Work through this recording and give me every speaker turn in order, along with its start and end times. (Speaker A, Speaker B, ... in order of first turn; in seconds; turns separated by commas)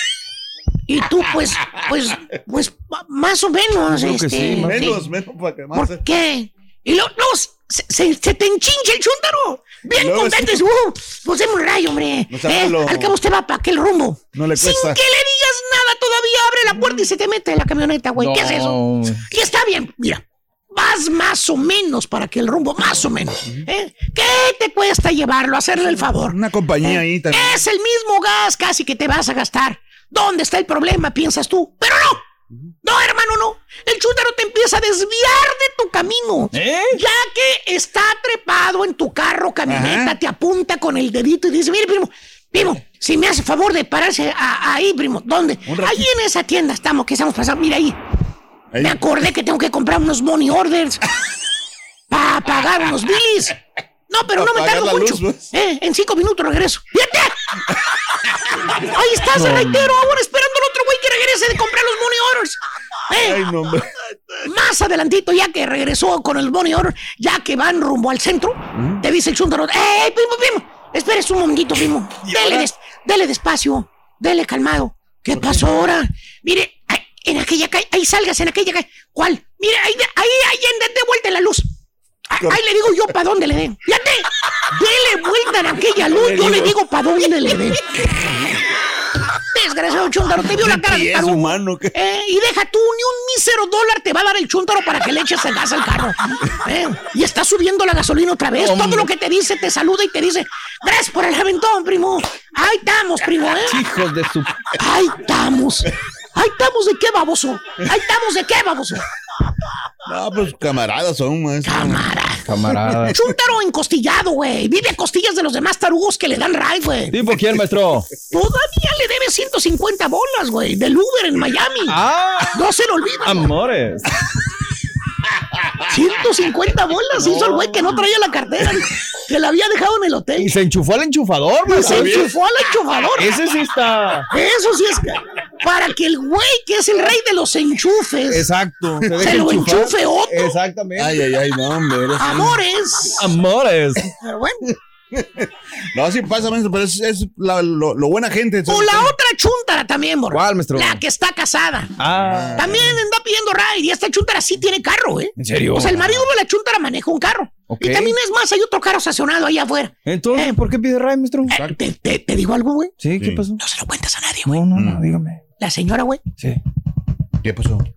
Speaker A: 0.9-5.0, Speaker B: 3.9-5.0, Speaker C: 4.6-6.0, Speaker A: 5.7-32.2, Speaker C: 9.9-10.6, Speaker C: 12.3-13.2, Speaker C: 14.3-15.0, Speaker B: 18.2-19.2, Speaker C: 26.1-27.6, Speaker A: 32.8-48.0, Speaker B: 36.5-37.0, Speaker C: 39.7-40.2, Speaker C: 45.6-46.1, Speaker C: 48.7-49.0, Speaker A: 48.8-51.0, Speaker A: 52.1-53.6, Speaker A: 54.1-57.4, Speaker C: 54.3-55.5, Speaker A: 58.8-63.5, Speaker C: 59.3-59.9, Speaker C: 63.1-63.9, Speaker A: 64.4-81.7, Speaker C: 68.7-69.0, Speaker C: 72.2-72.7, Speaker C: 75.3-75.7, Speaker A: 82.3-88.0, Speaker C: 86.1-86.8, Speaker A: 89.5-103.8, Speaker C: 90.6-92.0, Speaker B: 98.6-99.1, Speaker B: 103.7-104.6, Speaker A: 104.8-109.0, Speaker C: 110.1-112.1, Speaker A: 111.6-112.5, Speaker B: 112.4-113.2, Speaker A: 113.0-117.1, Speaker B: 117.1-118.1, Speaker A: 118.3-122.0, Speaker B: 121.9-122.6, Speaker A: 122.5-123.5, Speaker B: 123.2-124.1, Speaker A: 125.9-130.5, Speaker B: 127.2-128.0, Speaker B: 130.4-132.3, Speaker A: 131.7-133.4, Speaker C: 131.7-132.3, Speaker B: 133.2-134.3, Speaker A: 134.3-138.5, Speaker B: 138.3-141.2, Speaker C: 139.0-139.4, Speaker A: 139.2-140.6, Speaker C: 141.0-142.6, Speaker A: 142.2-143.3, Speaker B: 143.2-144.1, Speaker A: 144.2-144.7, Speaker C: 145.1-149.1, Speaker A: 148.7-151.9, Speaker B: 150.3-151.0, Speaker B: 152.0-152.8, Speaker C: 152.1-153.0, Speaker A: 152.6-160.6, Speaker B: 155.4-156.1, Speaker B: 157.7-158.2, Speaker B: 160.1-161.5, Speaker A: 161.5-162.9, Speaker C: 161.5-161.8, Speaker B: 163.0-163.6, Speaker C: 163.2-163.4, Speaker A: 163.6-164.6, Speaker B: 164.5-165.4, Speaker C: 164.8-165.1, Speaker A: 165.6-166.2, Speaker C: 167.4-167.9